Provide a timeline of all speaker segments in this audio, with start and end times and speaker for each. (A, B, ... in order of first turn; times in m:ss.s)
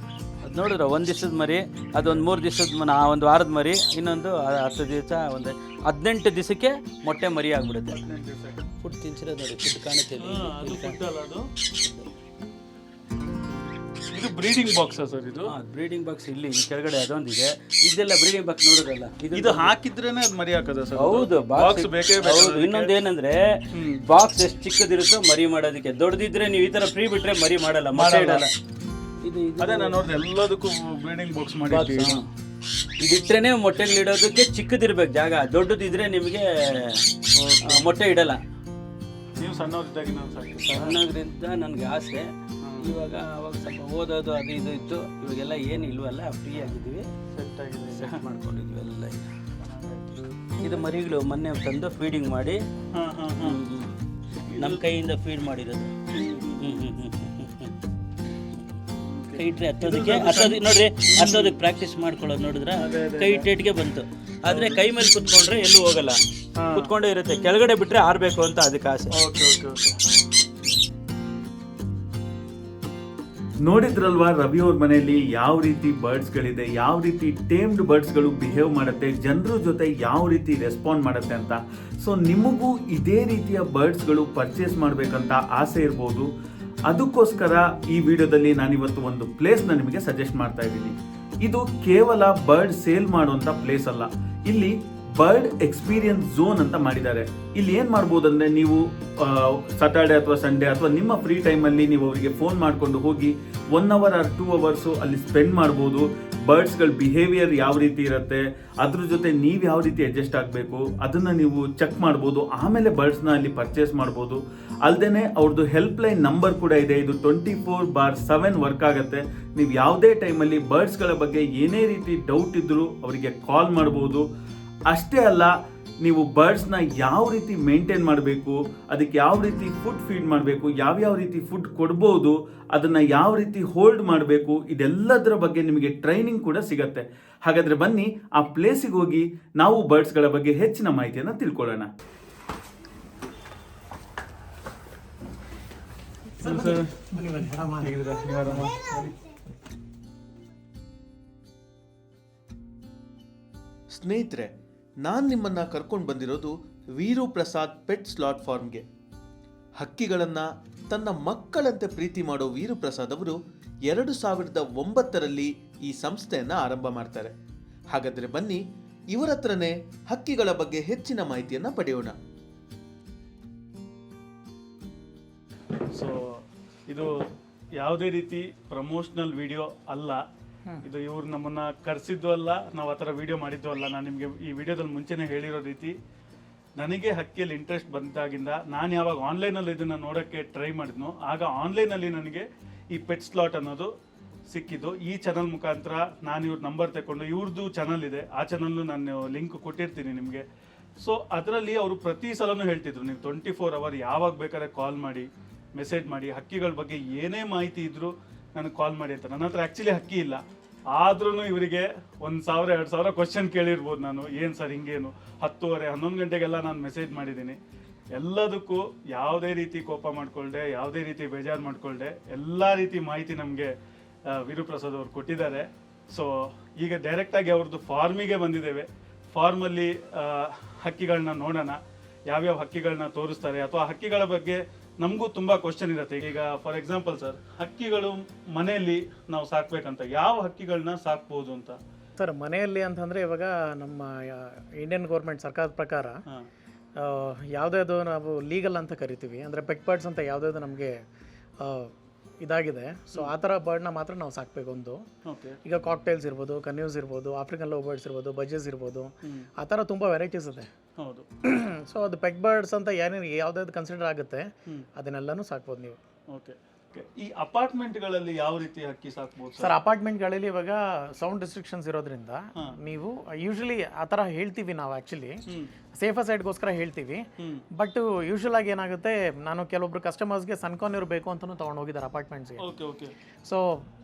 0:00.4-0:08.0 A
0:08.1-0:08.5 B
0:08.8-0:11.0 A
0:10.5-0:11.0 B
0:10.6-0:11.2 C
0:11.8-0:12.1 A
0:14.1-0:15.5 B
0:14.6-0:15.2 C
0:15.5-0:19.7 A
0:19.3-0:22.8 C
0:20.9-0:28.5 A
0:28.0-0:28.4 B
0:29.2-0:30.0 A
0:29.6-0:32.2 B
0:30.3-0:31.6 C
0:31.7-0:32.2 A
0:33.0-0:37.0 A
0:37.6-0:38.4 A
0:39.4-0:41.0 B
0:39.5-0:40.7 C
0:40.6-0:42.3 A
0:42.8-0:47.1 A
0:47.4-0:48.0 C
0:48.0-0:49.3 A
0:49.8-0:50.0 C
0:50.6-0:52.6 A
0:53.0-0:53.4 C
0:53.4-0:53.9 A
0:54.5-0:54.8 B
0:54.6-0:55.9 A
0:56.3-0:56.8 B
0:56.6-0:57.7 A
0:59.2-1:00.6 B
0:59.4-1:06.2 A
1:01.1-1:01.5 B
1:02.9-1:03.4 B
1:04.5-1:04.8 B
1:06.7-1:09.1 A
1:09.4-1:09.9 C
1:13.6-1:26.3 C
1:26.9-2:04.2 C
2:04.9-2:05.5 C
2:06.0-2:21.9 C
2:26.4-2:28.8 D
2:26.4-2:26.9 B
2:27.8-2:29.1 B
2:33.9-2:34.5 C
2:35.0-2:38.8 C
2:39.8-2:47.3 C
2:47.9-2:52.1 C
2:55.9-2:57.1 B
2:57.8-3:00.2 B
3:00.8-3:05.9 B
3:06.8-3:12.4 B
3:13.0-3:13.9 B
3:14.5-3:20.4 B
3:21.0-3:25.3 B
3:25.8-3:30.4 B
3:31.0-3:37.6 B
3:38.2-3:43.7 B
3:44.3-3:51.8 B
3:52.3-4:01.8 B
4:00.9-4:01.2 C
4:02.2-4:06.2 D
4:07.0-4:10.9 D
4:11.6-4:11.9 D
4:12.4-4:15.0 D
4:15.3-4:15.6 B
4:15.6-4:20.7 D
4:21.4-4:26.0 D
4:26.9-4:29.6 C
4:29.6-4:35.3 D
4:36.0-4:37.2 D
4:37.8-4:42.6 D
4:42.6-4:43.1 B
4:43.4-4:43.8 D